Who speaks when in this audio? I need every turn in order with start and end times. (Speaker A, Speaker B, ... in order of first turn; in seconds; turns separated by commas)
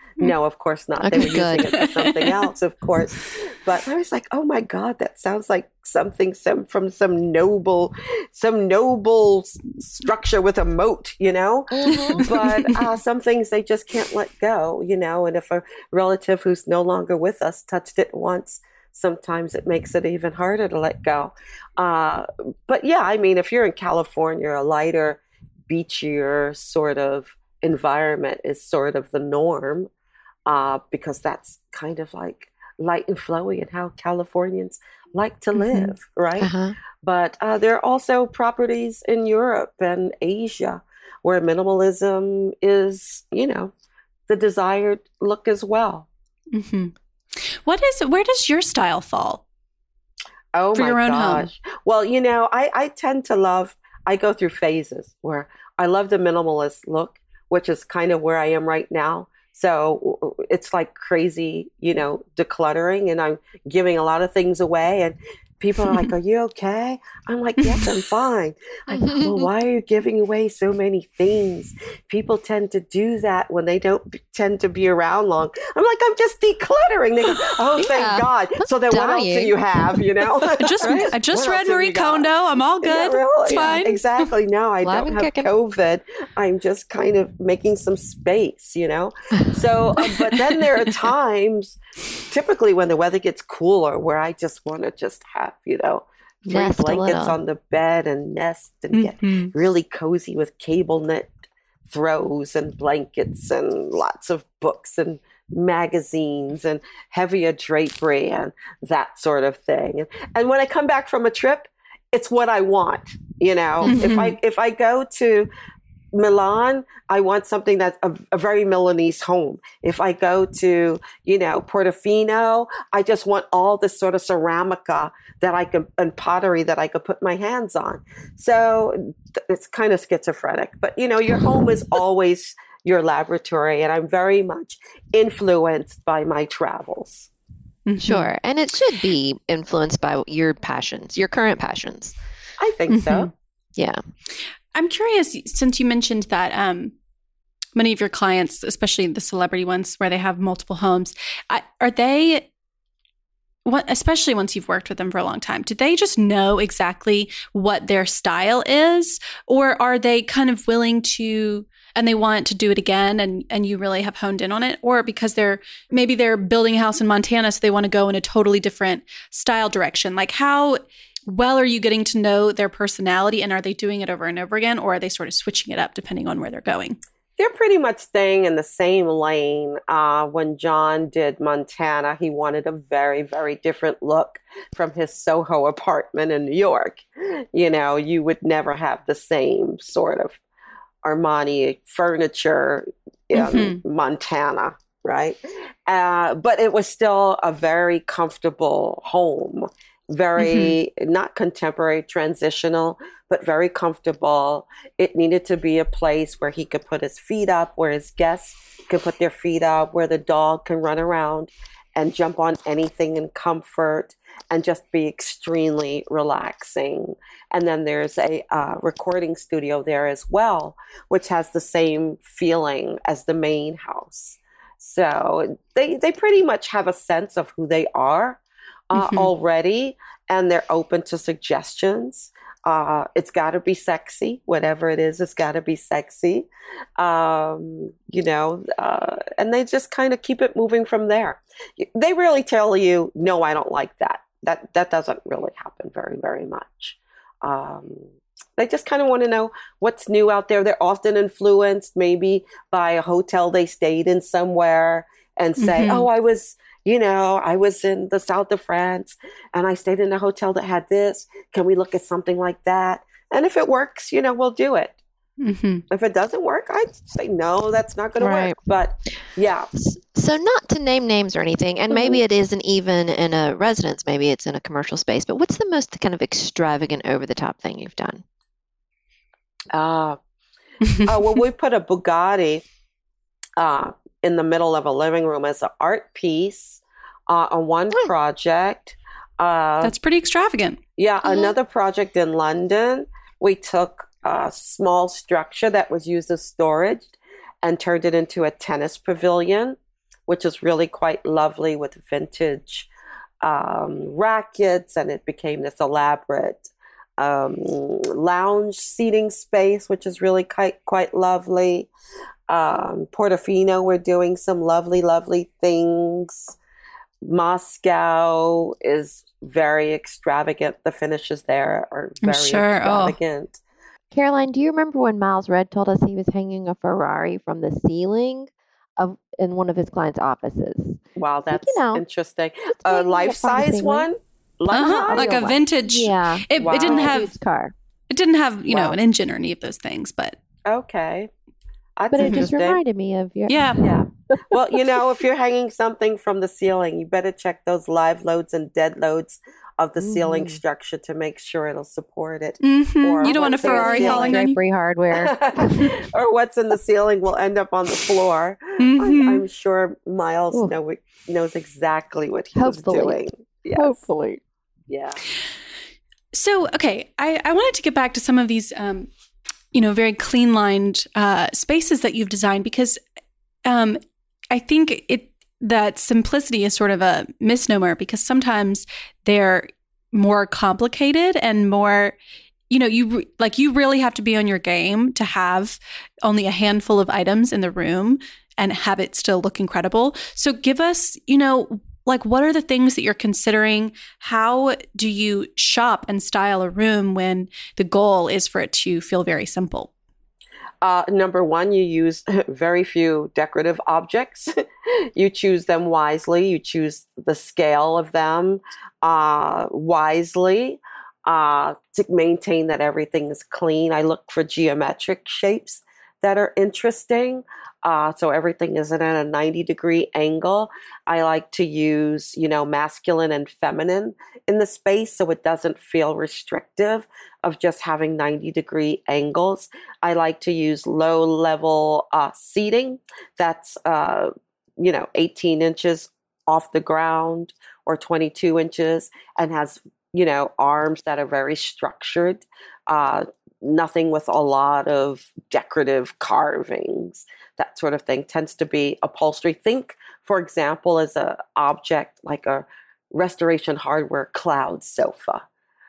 Speaker A: 0.2-29.9, Speaker B: 1.0-1.8, Speaker C: 1.2-1.9, Speaker B: 11.7-12.3, Speaker A: 30.5-36.5, Speaker B: 36.4-36.8, Speaker A: 37.0-43.7, Speaker A: 44.3-46.1, Speaker C: 46.5-49.4, Speaker A: 50.5-101.3, Speaker C: 50.8-51.5, Speaker B: 68.9-69.5, Speaker B: 77.8-80.0, Speaker C: 80.6-84.1, Speaker B: 83.5-83.8, Speaker B: 84.8-85.5, Speaker B: 96.5-97.4, Speaker C: 99.0-99.5, Speaker A: 101.9-115.5, Speaker B: 113.8-114.2, Speaker C: 113.8-114.4, Speaker A: 116.1-137.3, Speaker C: 137.9-138.3, Speaker B: 138.0-142.1, Speaker A: 142.6-143.3, Speaker C: 142.9-143.3, Speaker B: 143.8-144.0, Speaker C: 144.7-146.9, Speaker C: 147.8-152.5, Speaker C: 153.7-177.0, Speaker A: 177.4-190.4, Speaker A: 191.0-236.5, Speaker C: 193.3-193.8, Speaker C: 200.4-200.8, Speaker C: 229.0-229.3, Speaker A: 237.0-265.0, Speaker C: 255.6-256.1, Speaker C: 265.4-265.8, Speaker A: 265.9-269.7, Speaker B: 268.2-268.6, Speaker B: 269.8-278.2, Speaker A: 279.7-280.2, Speaker A: 281.0-282.6, Speaker A: 283.6-289.9, Speaker C: 289.8-290.8, Speaker A: 291.0-299.8, Speaker B: 291.2-291.5, Speaker A: 300.3-302.9, Speaker A: 303.4-311.9, Speaker A: 312.5-316.6, Speaker A: 317.2-323.6, Speaker C: 322.2-323.2, Speaker B: 324.1-332.0, Speaker A: 331.2-335.5, Speaker B: 332.7-334.1, Speaker C: 334.7-337.3, Speaker B: 335.1-337.7, Speaker A: 336.6-337.3, Speaker C: 338.1-340.4, Speaker A: 338.7-339.0, Speaker A: 340.7-341.3, Speaker A: 342.0-342.8, Speaker B: 342.1-344.8, Speaker C: 342.2-342.4, Speaker C: 343.5-343.8, Speaker A: 343.8-354.4, Speaker B: 350.0-350.6, Speaker C: 352.6-354.6, Speaker B: 353.2-355.9, Speaker A: 355.2-364.0, Speaker C: 358.8-359.4, Speaker B: 362.6-364.4, Speaker A: 364.9-365.2, Speaker C: 366.3-369.1, Speaker C: 369.7-373.0, Speaker C: 373.7-374.0, Speaker C: 374.5-382.2, Speaker C: 382.7-399.9, Speaker A: 400.8-404.5, Speaker A: 405.1-455.4